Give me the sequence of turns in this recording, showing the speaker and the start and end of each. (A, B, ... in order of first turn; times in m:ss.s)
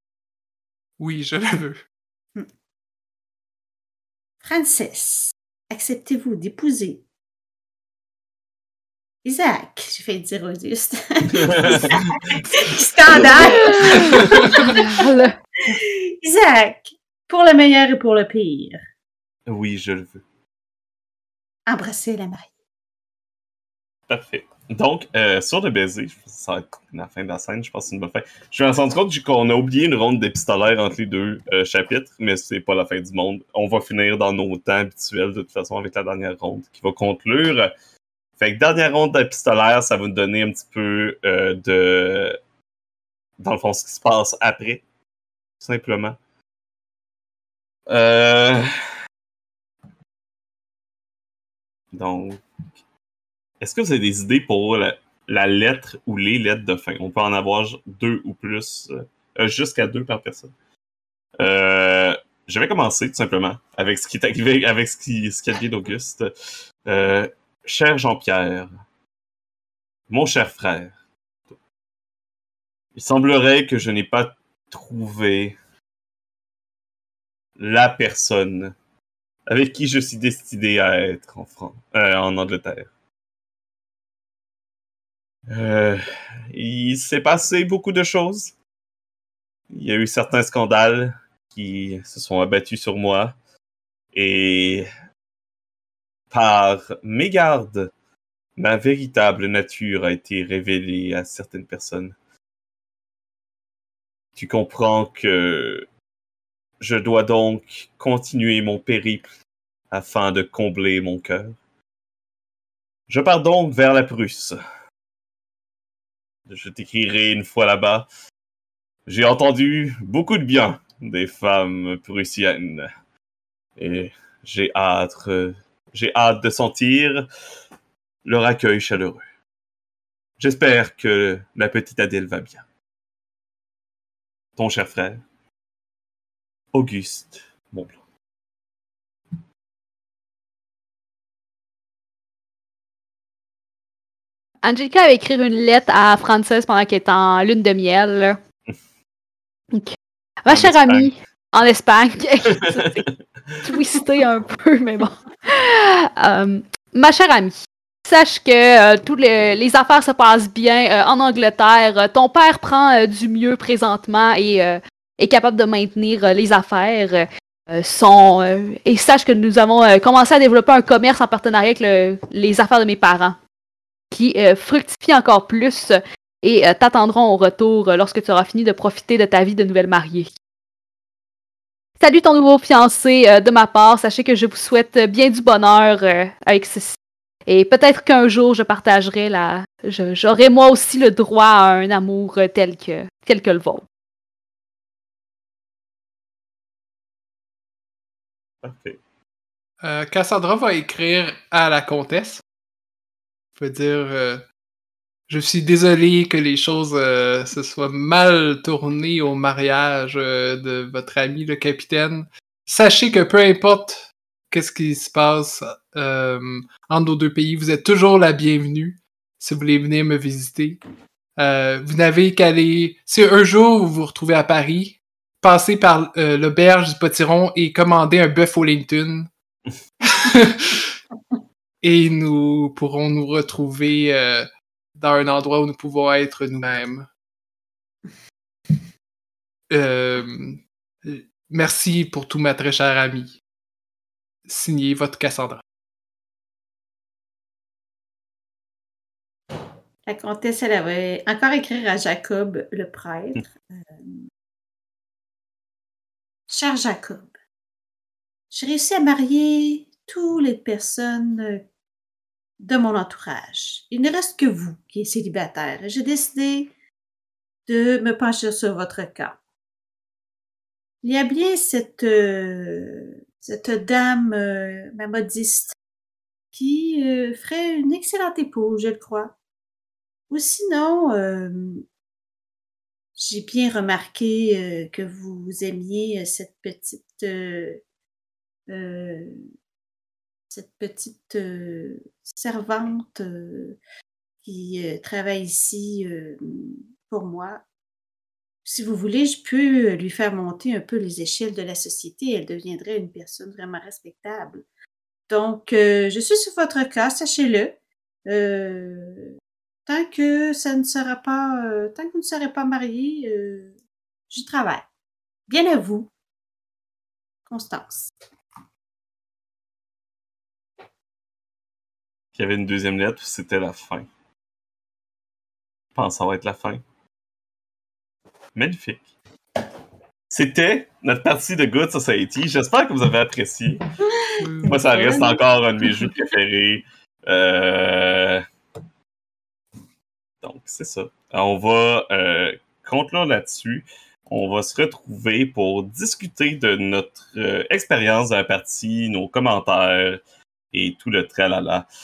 0:01.0-0:01.8 A
0:04.4-0:07.0 B
0:09.2-0:15.0 B
0:11.3-0:12.4 C
0:13.2-0:14.3 C
0:13.3-0:15.3 D
0:15.7-0:18.8 B
0:19.5-0:20.2 C
0:21.7-0:22.5 B
0:24.1-0:37.7 C
0:38.4-0:42.4 C
0:43.4-0:44.8 C
0:45.6-0:46.2 C
0:47.9-0:48.7 C
0:51.9-0:52.4 C
0:53.6-1:00.5 C
1:01.4-1:06.3 C
1:06.8-1:08.7 C
1:10.1-1:10.9 C
1:12.9-1:15.6 C
1:17.6-1:18.7 C
1:19.4-1:22.9 C
1:25.5-1:28.5 C
1:29.7-1:33.4 C
1:34.1-1:34.9 C
1:36.3-1:37.9 C
1:38.6-1:42.1 C
1:44.3-1:45.8 C
1:46.8-1:49.3 C
1:49.9-1:51.6 C
1:53.1-1:54.6 C
1:56.5-1:58.1 C
1:59.0-2:02.9 C
2:03.8-2:07.2 C
2:08.2-2:09.2 C
2:10.4-2:12.6 C
2:14.6-2:15.2 C
2:16.7-2:18.0 C
2:24.6-2:28.4 D
2:30.4-2:33.0 D
2:30.5-2:31.1 C
2:32.6-2:32.9 C
2:33.6-2:37.5 D
2:38.0-2:53.4 D
2:54.1-3:00.3 D
3:02.0-3:06.9 D
3:07.5-3:13.8 D
3:18.6-3:19.0 C
3:19.8-3:22.4 A
3:23.6-3:24.5 A
3:25.3-3:40.8 A
3:41.4-3:49.3 A
3:50.0-3:50.9 A
3:51.8-3:57.1 A
3:59.7-4:03.4 A
4:04.5-4:05.6 A
4:10.0-4:14.2 B
4:16.5-4:17.3 B
4:18.5-4:21.6 B
4:22.6-4:26.7 B
4:27.7-4:29.4 B
4:31.0-4:35.7 B
4:36.5-4:39.4 B
4:40.3-4:41.8 B
4:43.2-4:47.8 B
4:48.7-4:49.4 B
4:50.5-4:53.8 B
4:54.4-4:57.6 B
4:58.6-5:04.6 B
5:05.3-5:09.3 B
5:09.8-5:13.7 B
5:14.3-5:14.8 B
5:15.5-5:16.1 B
5:17.5-5:18.1 B
5:22.3-5:24.1 C
5:25.9-5:26.8 C
5:28.5-5:29.1 C
5:30.3-5:33.8 C
5:34.1-5:35.4 B
5:34.4-5:34.8 A
5:34.6-5:38.4 C
5:40.4-5:50.2 C
5:50.7-5:51.9 C